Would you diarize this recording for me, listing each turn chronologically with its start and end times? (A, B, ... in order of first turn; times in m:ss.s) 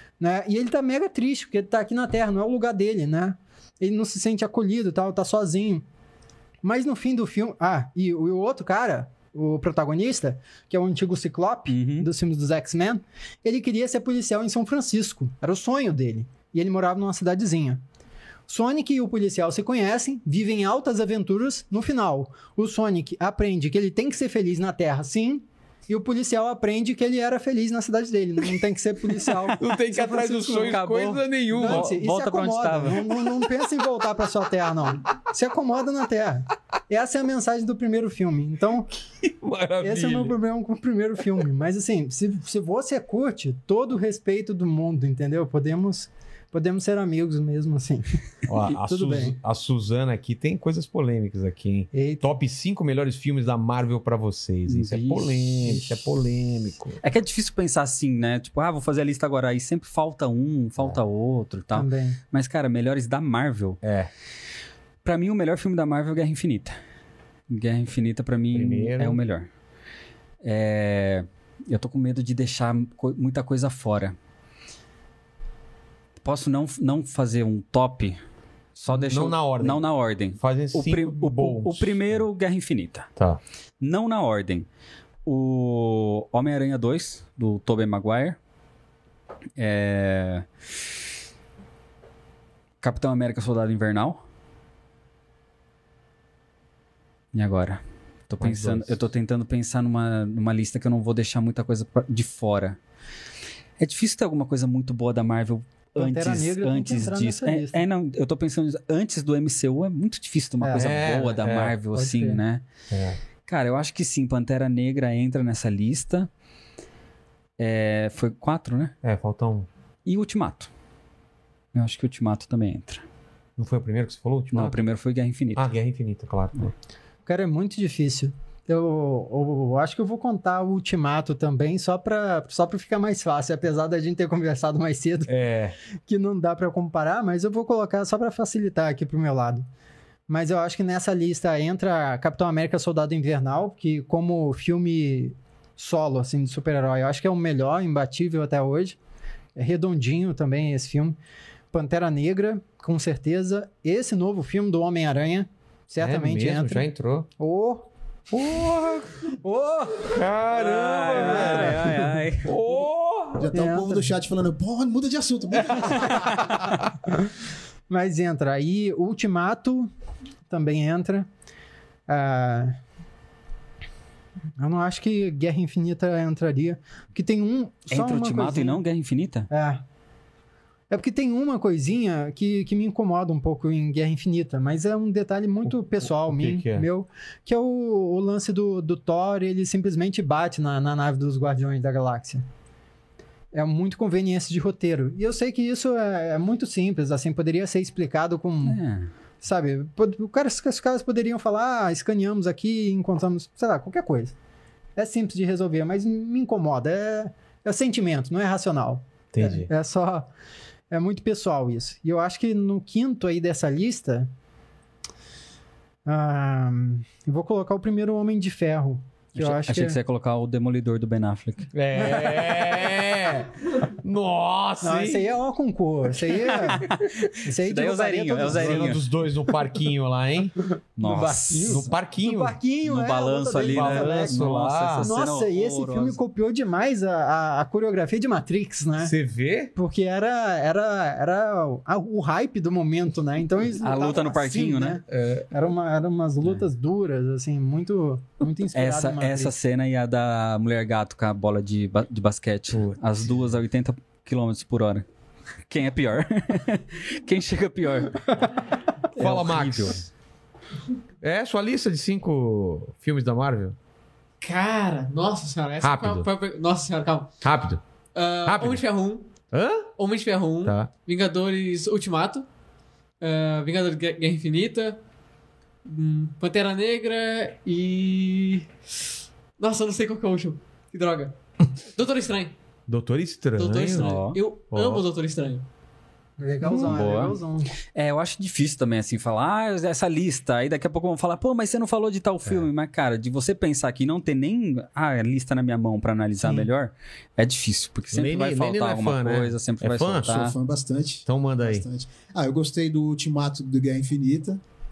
0:00.2-0:05.8 A
0:06.6-0:17.8 A
0:11.7-0:12.1 B
0:18.5-0:30.8 A
0:29.6-0:31.9 C
0:30.6-0:33.2 B
0:31.5-0:38.9 A
0:39.2-0:40.4 C
0:39.8-0:48.0 A
0:48.5-0:57.0 C
0:48.6-0:49.3 A
0:51.9-0:52.2 A
0:54.7-0:55.7 B
0:55.6-0:55.9 A
0:57.0-1:03.8 B
1:01.7-1:02.2 A
1:03.8-1:04.1 C
1:05.0-1:06.8 B
1:07.5-1:09.5 B
1:08.5-1:09.2 C
1:10.4-1:14.1 B
1:16.2-1:18.2 B
1:18.8-1:23.1 B
1:18.9-1:19.8 C
1:20.4-1:22.2 C
1:23.8-1:24.6 B
1:25.2-1:28.4 B
1:29.6-1:30.4 B
1:32.8-1:34.2 B
1:37.3-1:42.8 B
1:38.4-1:39.0 C
1:43.8-1:52.6 B
1:45.9-1:47.8 A
1:50.6-1:51.1 A
1:50.8-1:51.8 C
1:51.9-1:52.4 A
1:52.9-1:53.2 C
1:53.5-1:56.3 B
1:57.6-1:58.9 B
1:59.0-1:59.7 C
2:00.0-2:00.7 B
2:01.7-2:03.0 B
2:03.6-2:04.8 C
2:04.5-2:05.7 B
2:05.5-2:06.7 C
2:07.2-2:15.3 A
2:15.3-2:15.7 C
2:16.1-2:19.6 A
2:20.3-2:29.0 A
2:29.6-2:31.2 A
2:31.7-2:36.9 A
2:36.0-2:37.3 C
2:37.4-2:37.9 A
2:38.3-2:39.2 C
2:39.3-2:40.2 A
2:40.0-2:43.5 C
2:40.5-2:42.5 B
2:41.1-2:42.2 A
2:43.4-2:46.4 D
2:43.5-2:44.1 A
2:45.7-2:46.5 C
2:47.0-2:47.3 A
2:47.9-2:49.9 A
2:50.5-2:51.3 A
2:52.1-2:52.8 A
2:54.6-2:58.8 A
2:57.9-2:59.5 B
2:59.5-2:59.8 A
3:00.9-3:12.4 A
3:05.6-3:06.9 C
3:13.5-3:18.8 A
3:18.6-3:19.1 B
3:19.4-3:24.3 A
3:25.0-3:30.3 A
3:29.3-3:29.7 C
3:30.9-3:34.3 A
3:36.0-3:40.0 A
3:39.4-3:41.7 B
3:41.7-3:45.3 C
3:42.0-3:42.5 A
3:44.8-3:46.9 A
3:46.5-3:49.0 B
3:47.4-3:49.0 A
3:48.4-3:50.5 C
3:51.0-3:51.9 B
3:51.0-3:54.4 A
3:51.6-3:52.6 C
3:52.8-3:56.2 B
3:53.6-3:55.1 C
3:55.0-3:59.1 A
3:59.0-3:59.7 C
3:59.7-4:09.5 A
4:03.8-4:05.0 B
4:05.1-4:05.5 C
4:08.7-4:15.0 B
4:12.7-4:13.4 C
4:15.7-4:18.5 B
4:19.1-4:20.1 B
4:19.2-4:20.0 C
4:21.2-4:23.8 C
4:24.4-4:27.3 E
4:25.8-4:26.3 C
4:27.4-4:27.8 C
4:28.1-4:29.2 E
4:28.4-4:28.8 C
4:29.5-4:29.9 C
4:30.0-4:32.4 E
4:30.6-4:30.9 C
4:33.2-4:35.0 E
4:35.8-4:38.7 E
4:39.6-4:41.3 E
4:41.9-4:42.5 E
4:42.9-4:44.1 C
4:43.6-4:45.6 E
4:44.0-4:44.4 B
4:44.7-4:45.0 C
4:46.4-4:47.7 A
4:46.6-4:47.3 C
4:46.7-4:47.4 B
4:47.9-5:00.5 B
4:56.4-4:56.7 A
4:58.1-5:00.4 C
5:00.2-5:04.6 D
5:01.2-5:01.8 C